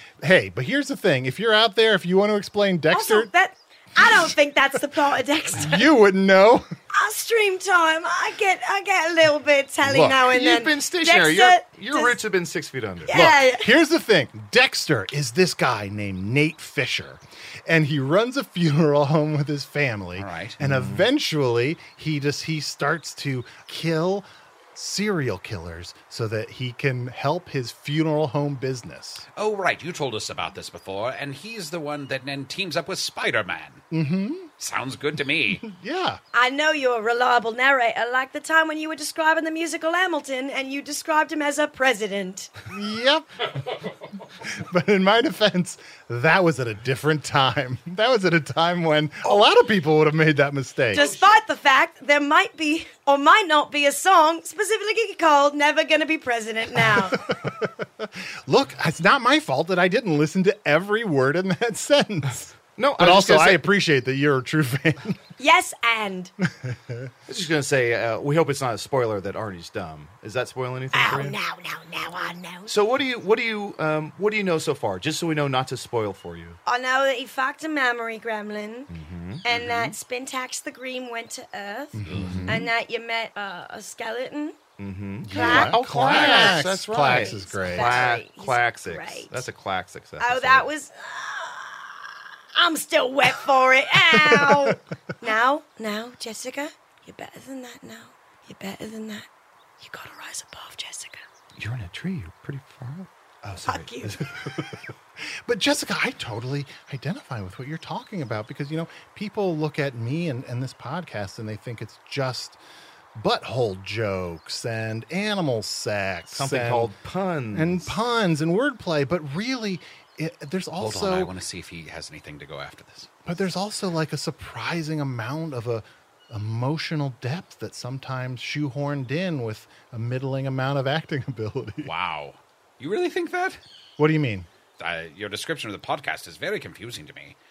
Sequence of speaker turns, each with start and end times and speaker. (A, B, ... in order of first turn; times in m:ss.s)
0:00.2-0:03.3 A
0:02.9-0:05.9 B
0:04.0-0:04.2 A
0:05.6-0:06.7 A
0:06.9-0:12.2 B
0:09.8-0:13.3 C
0:13.1-0:13.7 B
0:13.1-0:29.2 A
0:20.2-0:20.6 D
0:20.6-0:21.1 C
0:29.4-0:33.8 D
0:33.9-0:34.5 A
0:34.6-0:35.6 D
0:35.6-0:36.2 A
0:36.3-0:42.5 B
0:42.7-0:43.5 A
0:44.4-0:51.0 A
0:50.9-0:57.2 B
0:50.9-0:51.4 D
0:56.8-1:05.2 A
1:02.8-1:03.7 C
1:05.4-1:06.3 B
1:06.5-1:07.1 A
1:07.3-1:11.4 C
1:10.9-1:12.7 B
1:12.7-1:16.6 C
1:16.7-1:18.9 B
1:18.9-1:19.8 C
1:19.4-1:24.6 B
1:22.0-1:22.7 A
1:22.1-1:22.7 C
1:24.8-1:30.7 C
1:25.2-1:28.1 A
1:25.3-1:29.4 B
1:30.2-1:39.3 B
1:34.1-1:34.8 A
1:39.8-1:41.2 B
1:41.6-1:44.9 C
1:43.7-1:44.2 B
1:45.4-1:52.6 A
1:53.2-1:56.9 A
1:56.3-1:58.0 C
1:57.5-2:01.3 A
2:00.8-2:03.1 D
2:03.3-2:11.9 A
2:11.8-2:13.6 D
2:14.0-2:14.5 A
2:14.8-2:17.4 D